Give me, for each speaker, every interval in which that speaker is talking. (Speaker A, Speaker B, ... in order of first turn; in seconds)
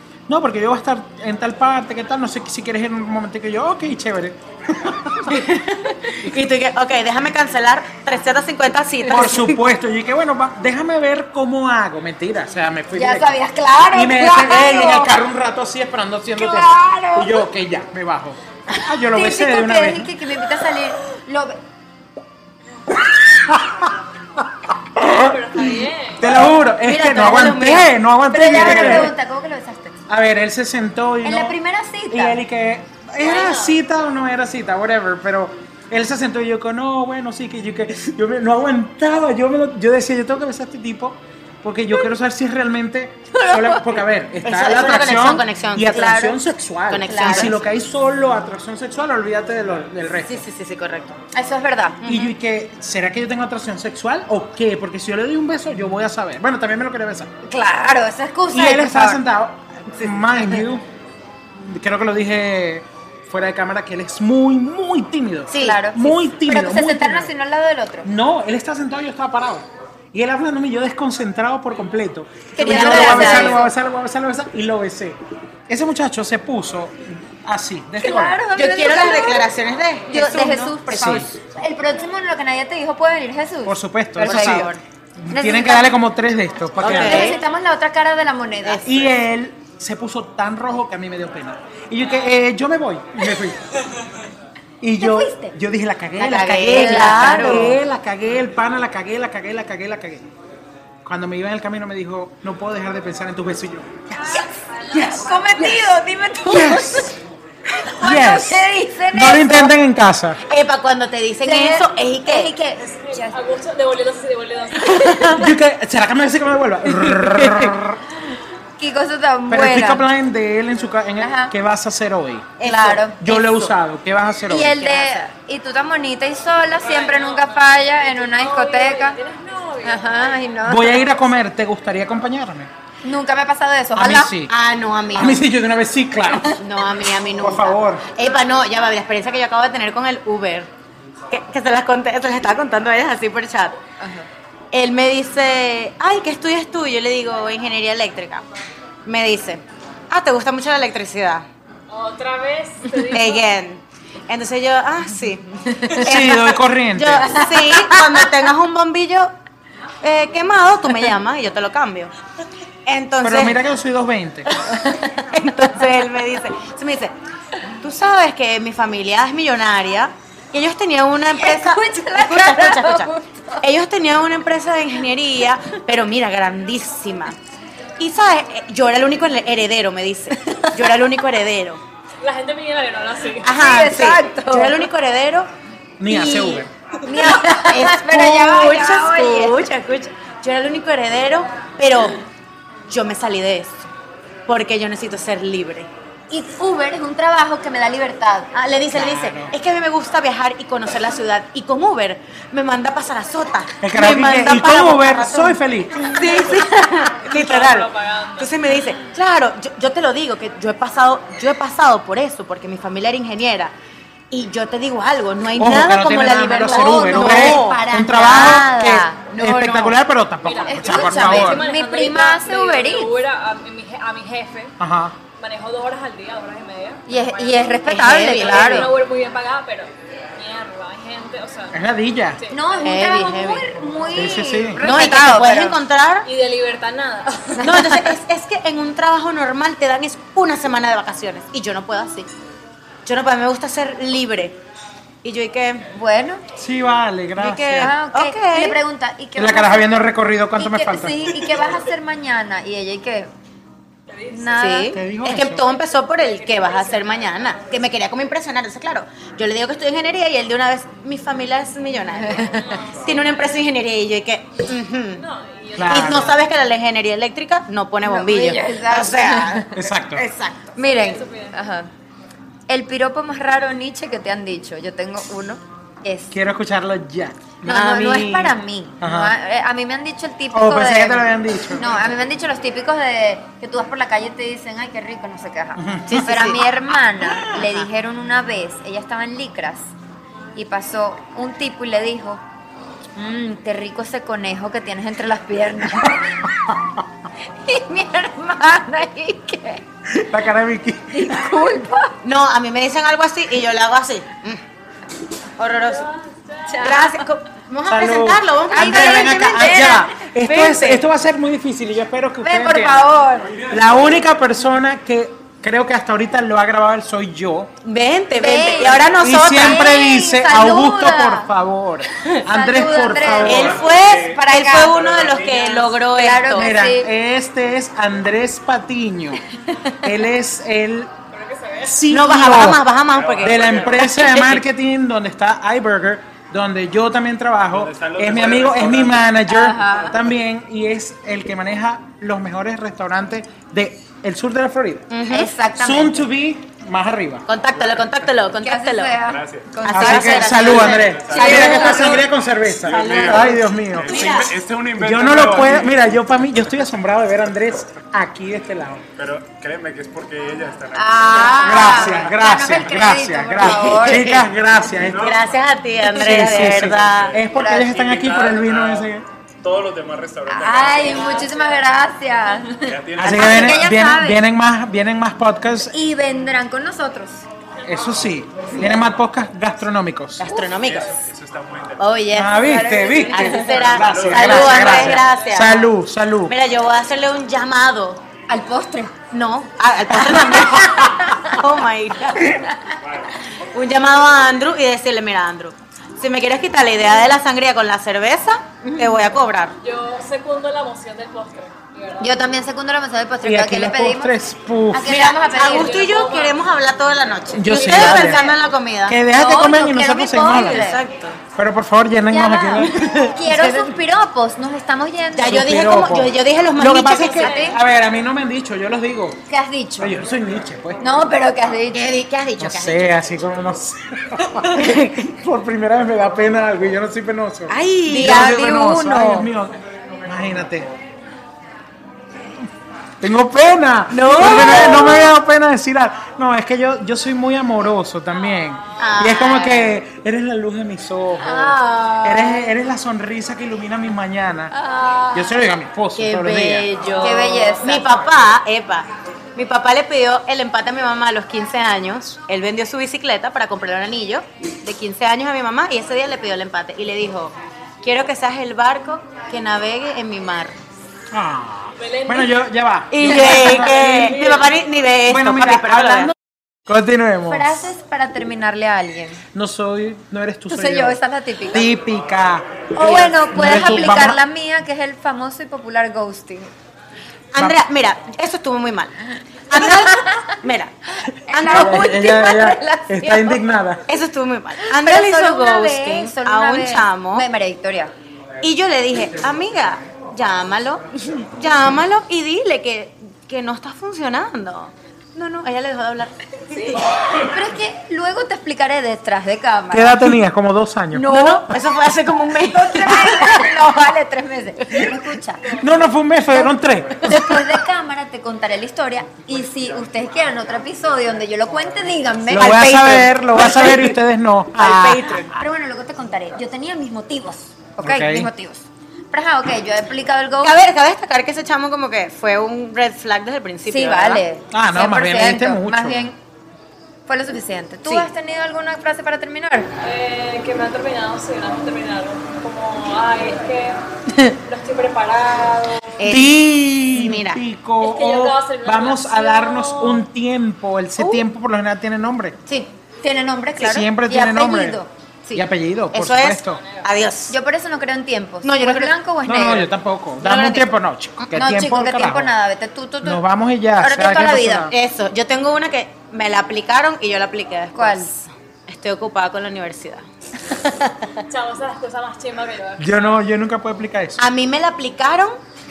Speaker A: 0.3-5.4, 9.1-13.4, 13.9-20.1, 22.9-29.1, 30.1-31.6, 32.1-50.4, 52.0-57.3, 58.5-60.8, 61.6-67.3, 68.0-78.4, 80.3-81.3, 83.6-87.4, 88.8-93.6, 94.8-100.3, 101.0-105.9, 106.4-107.2, 108.0-110.4, 115.3-118.0, 119.5-122.6, 123.2-124.9, 130.6-132.7, 133.9-134.5, 135.1-136.6, 137.4-138.0, 156.0-157.4, 163.2-164.5, 186.0-186.7, 198.9-199.5, 203.8-206.1, 215.6-221.7, 224.8-225.2, 231.7-232.4, 234.1-234.8, 246.5-247.9, 249.3-251.5, 254.9-255.6, 265.7-266.4, 269.7-270.2, 276.3-278.2, 279.0-279.3, 280.5-282.0, 285.8-286.2, 287.2-287.6, 295.9-296.8, 300.1-301.5, 307.9-313.1, 313.7-317.7, 319.2-323.8, 326.5-329.4, 330.0-331.1, 331.8-332.8, 333.4-345.1, 345.7-347.4, 349.9-354.3, 355.0-359.0, 361.6-365.4, 366.0-369.2, 373.2-375.9, 377.8-380.4, 382.3-386.5, 390.5-391.0, 403.4-405.2, 407.5-408.5, 409.1-410.9, 411.6-413.1, 415.4-419.4, 420.0-421.0, 422.6-430.9, 433.2-444.7, 445.3-446.9, 461.3-464.4, 465.2-467.7, 469.5-474.4, 481.5-484.0, 499.9-501.5, 505.7-507.7, 512.5-515.4, 518.0-518.5, 524.7-526.3, 536.2-542.6, 543.8-545.0, 545.5-546.8, 549.4-552.5, 553.2-554.9, 563.0-564.4
Speaker B: 5.2-9.6, 26.8-27.9, 28.5-29.0, 44.4-46.3, 46.9-47.5, 50.2-51.2, 52.0-52.3, 65.5-65.8, 72.6-73.7, 78.5-81.3, 84.2-84.8, 86.8-87.4, 88.6-89.0, 96.2-97.8, 110.5-112.5, 114.8-115.5, 117.0-117.7, 122.6-123.7, 124.8-125.2, 134.5-135.4, 136.6-140.7, 141.3-143.8, 144.7-148.4, 149.1-151.4, 153.1-159.3, 160.0-162.1, 162.8-163.6, 165.3-167.1, 167.8-177.4, 178.0-181.8, 183.4-185.5, 186.1-192.2, 192.9-193.9, 194.4-195.9, 198.5-213.7, 214.3-218.6, 219.3-220.0, 227.8-228.9, 232.8-233.7, 234.8-236.3, 237.6-242.3, 243.1-244.6, 245.2-245.9, 247.4-248.8, 254.5-265.2, 265.8-270.6, 277.6-278.5, 286.1-286.6, 302.2-304.6, 305.6-306.1, 306.7-311.0, 317.8-319.9, 323.4-326.7, 332.1-334.6, 345.1-345.5, 347.5-349.2, 349.8-352.2, 352.8-354.5, 363.6-364.5, 365.1-367.4, 380.4-381.2, 382.0-382.6, 383.3-385.9, 386.5-388.2, 389.3-392.6, 393.7-399.8, 405.0-409.2, 410.4-411.4, 412.8-413.9, 415.3-417.6, 421.9-423.2, 424.7-425.3, 427.7-428.7, 434.1-435.3, 439.0-439.9, 441.4-442.6, 446.1-460.8, 463.1-466.3, 473.0-473.9, 477.5-479.1, 479.7-480.9, 481.5-482.0, 484.1-487.5, 488.6-497.1, 501.1-503.8, 513.6-513.9, 514.7-515.5, 520.6-524.4, 536.2-536.6, 537.1-537.6, 545.4-547.5, 548.6-549.1, 550.4-550.9, 554.9-561.1, 564.4-565.6
Speaker C: 12.9-15.2, 16.4-17.5, 19.1-21.6, 28.3-30.0, 31.2-32.4, 43.4-43.9, 45.9-46.4, 47.0-47.5, 51.3-52.1, 57.5-59.2, 65.5-68.1, 72.5-73.7, 78.0-79.5, 80.1-84.7, 85.3-85.9, 86.8-89.0, 95.0-95.5, 96.6-97.8, 104.3-107.1, 107.8-109.7, 111.4-113.4, 118.8-120.0, 121.2-121.5, 122.6-123.2, 124.5-129.2, 129.8-131.0, 133.0-134.3, 144.0-144.3, 157.3-158.2, 164.8-165.1, 171.3-173.6, 180.4-180.8, 183.5-184.9, 186.2-189.7, 196.3-198.5, 216.5-219.2, 220.7-223.1, 227.1-228.9, 232.5-235.8, 237.6-238.0, 245.9-246.4, 247.8-250.0, 250.6-253.3, 254.3-255.0, 268.0-269.7, 270.7-271.9, 272.7-276.3, 277.6-289.9, 290.5-292.4, 293.1-296.5, 297.6-299.8, 301.1-302.1, 306.7-307.2, 308.7-310.1, 312.4-313.6, 318.4-321.5, 322.4-324.9, 326.1-327.1, 339.5-340.2, 345.3-346.2, 348.6-352.2, 360.9-364.4, 367.5-367.9, 370.5-374.4, 375.9-377.4, 382.5-383.9, 388.5-389.1, 390.3-391.6, 398.8-399.3, 402.2-404.3, 404.9-406.0, 407.7-408.6, 409.3-411.0, 412.3-415.9, 417.1-417.8, 419.5-420.1, 421.0-422.1, 428.1-429.5, 434.7-435.2, 445.0-445.2, 447.1-448.1, 467.5-469.4, 470.7-471.9, 472.9-476.7, 479.7-480.5, 481.5-483.6, 484.8-488.1, 496.9-500.3, 501.3-501.6, 502.5-505.8, 506.5-514.0, 515.5-520.7, 523.9-526.4, 527.3-529.9, 543.2-545.1, 547.5-549.9, 551.5-553.4, 554.0-554.9, 557.9-558.3
Speaker D: 25.1-26.3, 33.2-33.8, 112.8-115.3, 126.8-130.4, 151.9-153.4, 182.2-183.5, 207.1-208.5, 220.4-224.7, 225.4-231.8, 236.2-237.7, 254.1-254.8, 255.6-257.6, 262.4-263.1, 265.2-266.4, 270.8-271.5, 305.9-306.9, 331.3-332.0, 371.1-371.7, 399.8-402.4, 405.4-406.6, 417.2-417.8, 462.0-462.5, 463.2-464.8, 530.0-534.0, 534.5-536.1, 538.0-540.2, 546.7-547.0, 561.5-563.2
Speaker E: 323.3-326.1, 333.0-334.2, 337.7-339.4, 347.8-348.2, 349.2-349.8, 350.7-356.1, 359.2-362.3, 364.9-365.5, 366.7-369.1, 369.6-371.4, 372.8-373.9, 380.8-382.2, 383.9-385.2